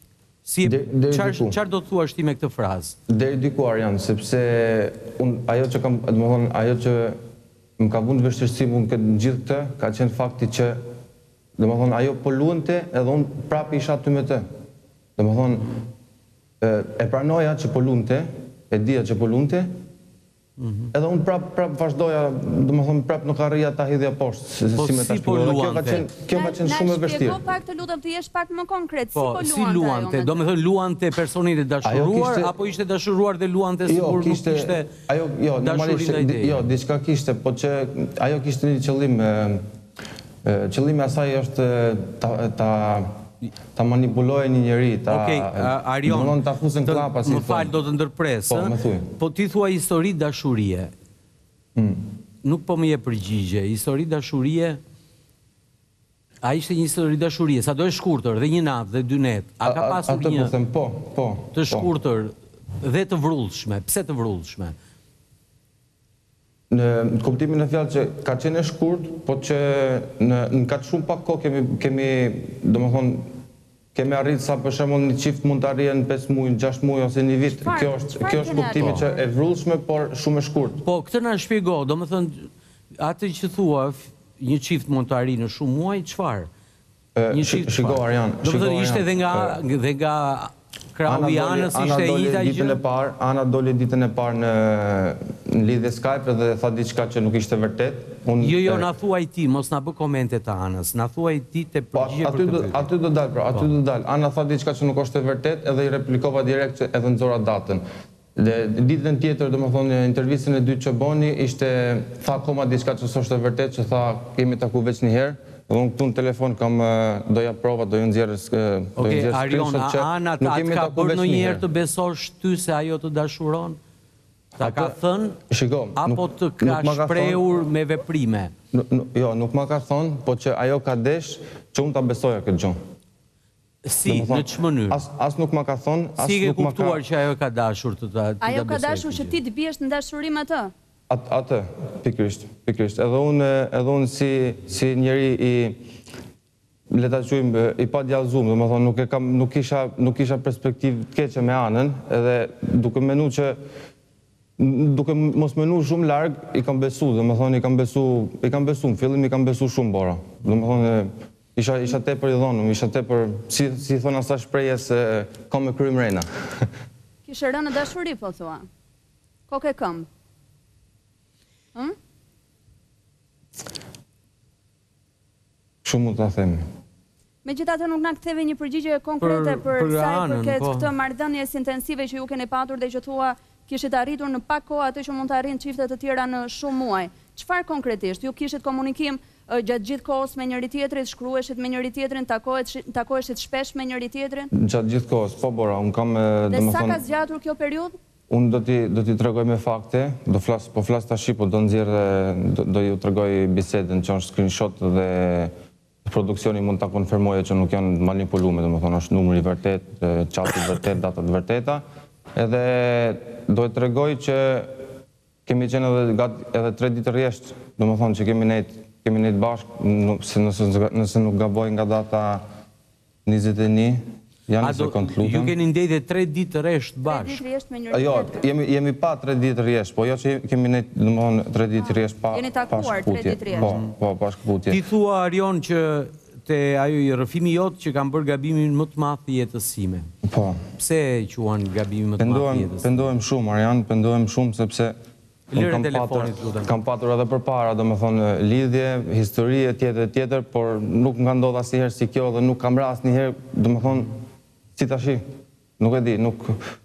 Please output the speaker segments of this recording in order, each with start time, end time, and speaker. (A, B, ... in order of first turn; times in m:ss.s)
0:00.5-0:03.0 A
0:00.6-0:01.6 B
0:03.1-0:07.2 B
0:07.8-0:10.8 B
0:11.6-0:14.5 B
0:15.2-0:15.8 B
0:16.6-0:19.8 B
0:20.6-0:20.9 A
0:20.9-0:27.4 B
0:24.8-0:26.1 A
0:26.4-0:30.4 C
0:29.2-0:34.9 A
0:31.8-0:32.5 B
0:33.9-0:39.6 B
0:35.6-0:36.7 A
0:40.4-0:43.2 B
0:43.8-0:47.8 B
0:45.1-0:50.9 A
0:48.5-0:49.1 B
0:51.8-0:52.1 B
0:52.4-0:54.8 A
0:56.4-1:00.5 A
0:59.6-1:01.9 B
1:01.5-1:04.8 A
1:06.7-1:13.3 B
1:14.0-1:20.8 B
1:17.5-1:19.2 C
1:20.8-1:26.5 A
1:27.2-1:29.6 B
1:27.3-1:32.8 A
1:31.1-1:38.9 B
1:38.4-1:42.9 A
1:41.9-1:47.8 B
1:48.4-2:01.6 B
1:59.0-2:03.8 A
2:04.6-2:05.0 B
2:04.6-2:05.4 A
2:05.5-2:07.4 B
2:06.0-2:08.5 A
2:08.7-2:12.8 B
2:13.8-2:15.0 A
2:14.1-2:17.0 B
2:16.2-2:19.4 A
2:18.4-2:20.7 C
2:21.1-2:25.8 B
2:26.9-2:33.6 B
2:34.6-2:46.7 B
2:47.3-2:48.7 C
2:49.5-2:50.1 C
2:55.8-2:56.7 B
2:57.4-3:14.5 C
2:59.2-3:00.9 A
3:14.5-3:17.0 B
3:16.5-3:18.0 C
3:18.3-3:25.5 B
3:26.0-3:31.8 B
3:32.4-3:34.7 B
3:35.5-3:42.4 B
3:43.3-3:45.6 B
3:44.6-3:47.4 A
3:47.0-3:48.4 C
3:47.9-3:54.8 B
3:51.8-3:53.7 C
3:53.6-3:53.9 A
3:54.7-4:00.1 A
4:00.2-4:00.6 B
4:00.8-4:03.0 A
4:02.2-4:05.0 B
4:05.5-4:06.7 A
4:05.5-4:14.1 B
4:14.8-4:15.3 B
4:15.8-4:16.6 B